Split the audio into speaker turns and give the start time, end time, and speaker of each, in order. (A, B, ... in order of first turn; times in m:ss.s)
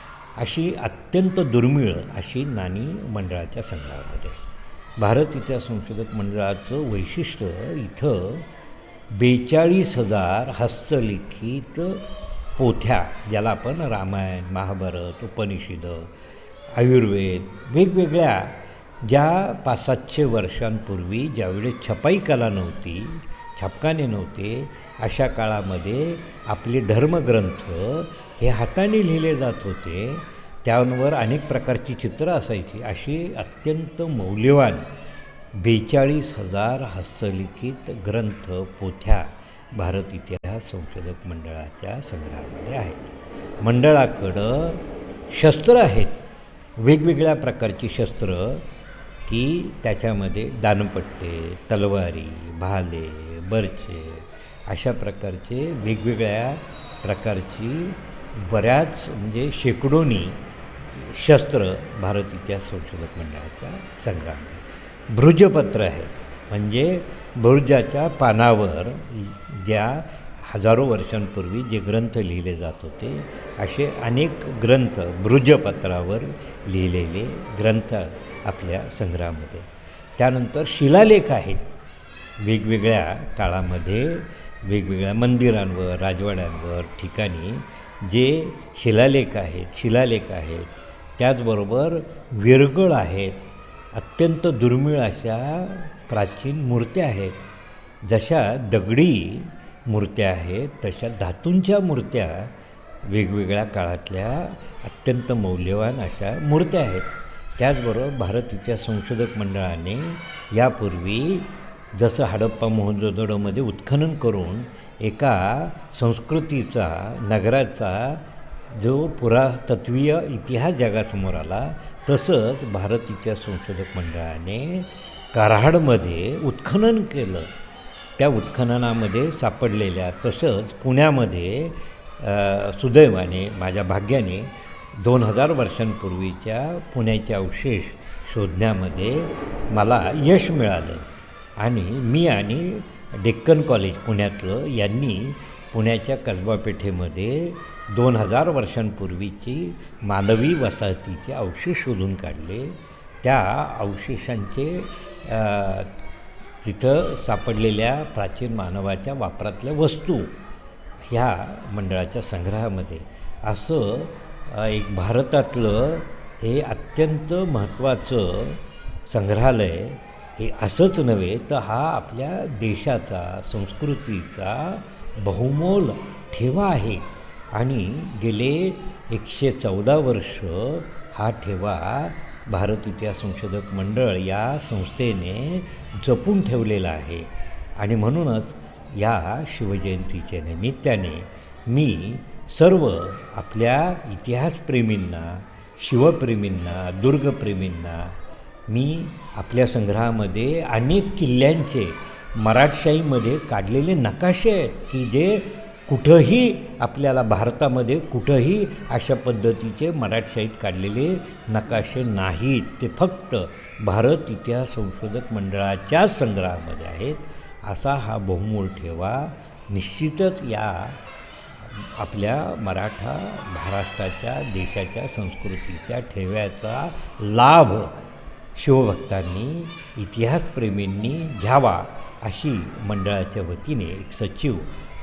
0:00.4-0:04.4 A
0:05.0-0:08.5 A
0:09.1-0:12.0 A
0:12.6-0:16.1 A
0:16.8-0:34.9 A
0:35.6-0:46.2 A
0:46.8-0:48.6 A
0:49.3-1:00.4 A
1:00.9-1:21.6 A
1:22.4-1:33.4 A
1:33.9-1:37.4 A
1:38.0-1:42.5 A
1:43.0-1:47.1 A
1:47.6-2:07.5 A
2:08.2-2:21.1 A
2:21.6-2:35.9 A
2:36.6-2:40.3 A
2:41.1-3:07.3 A
3:07.8-3:18.1 A
3:18.7-3:41.0 A
3:41.6-3:47.9 A
3:48.6-3:54.7 A